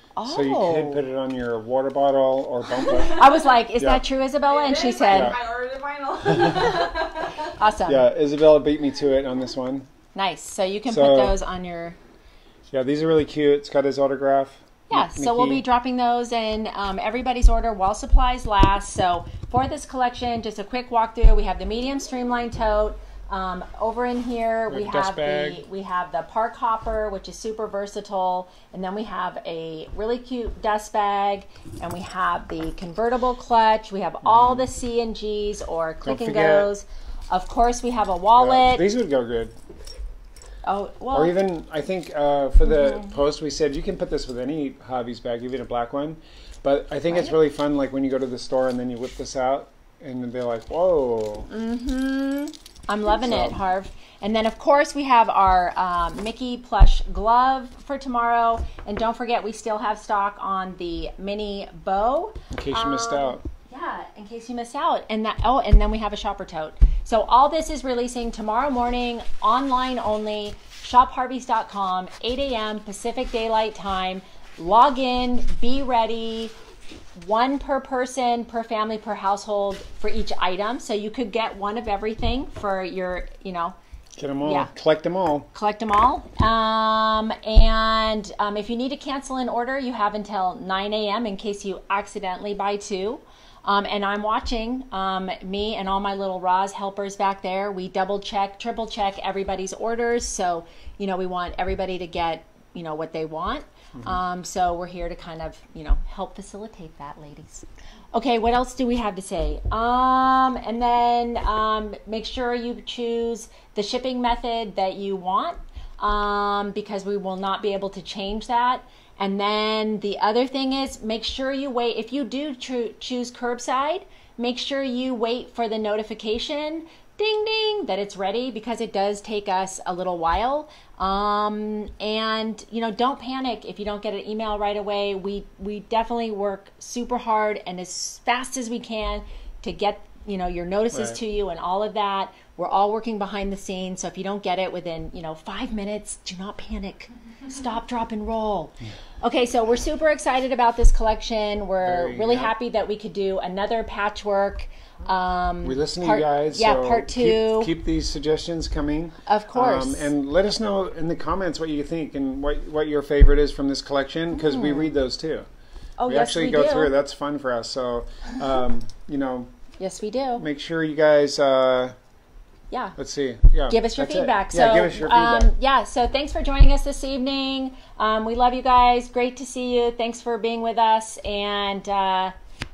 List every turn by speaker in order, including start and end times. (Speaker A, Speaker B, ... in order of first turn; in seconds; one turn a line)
Speaker A: 0.2-1.0
Speaker B: 0.3-3.2
Speaker C: 2.9-3.2
Speaker A: 3.1-5.4
Speaker C: 4.4-7.5
Speaker B: 5.1-5.4
Speaker B: 6.3-6.7
Speaker A: 7.5-8.1
Speaker B: 7.9-9.9
Speaker A: 10.2-12.0
Speaker B: 10.9-11.4
Speaker B: 12.7-15.6
Speaker A: 14.9-38.9
Speaker B: 24.7-25.6
Speaker B: 34.2-34.7
Speaker B: 36.0-36.7
Speaker B: 38.4-39.5
Speaker A: 40.6-41.4
Speaker B: 41.1-51.5
Speaker A: 42.6-43.1
Speaker A: 47.1-47.4
Speaker A: 51.5-76.5
Speaker B: 53.2-53.6
Speaker B: 62.5-63.4
Speaker A: 77.2-83.8
Speaker B: 84.2-85.5
Speaker A: 84.4-84.7
Speaker A: 85.5-157.7
Speaker B: 140.9-141.2
Speaker B: 151.8-152.5
Speaker B: 155.6-165.5
Speaker A: 159.3-160.1
Speaker A: 164.3-164.9
Speaker A: 166.0-166.9
Speaker B: 166.1-169.5
Speaker A: 169.8-170.4
Speaker B: 170.4-172.0
Speaker A: 172.7-173.0
Speaker B: 173.0-175.5
Speaker A: 173.7-182.3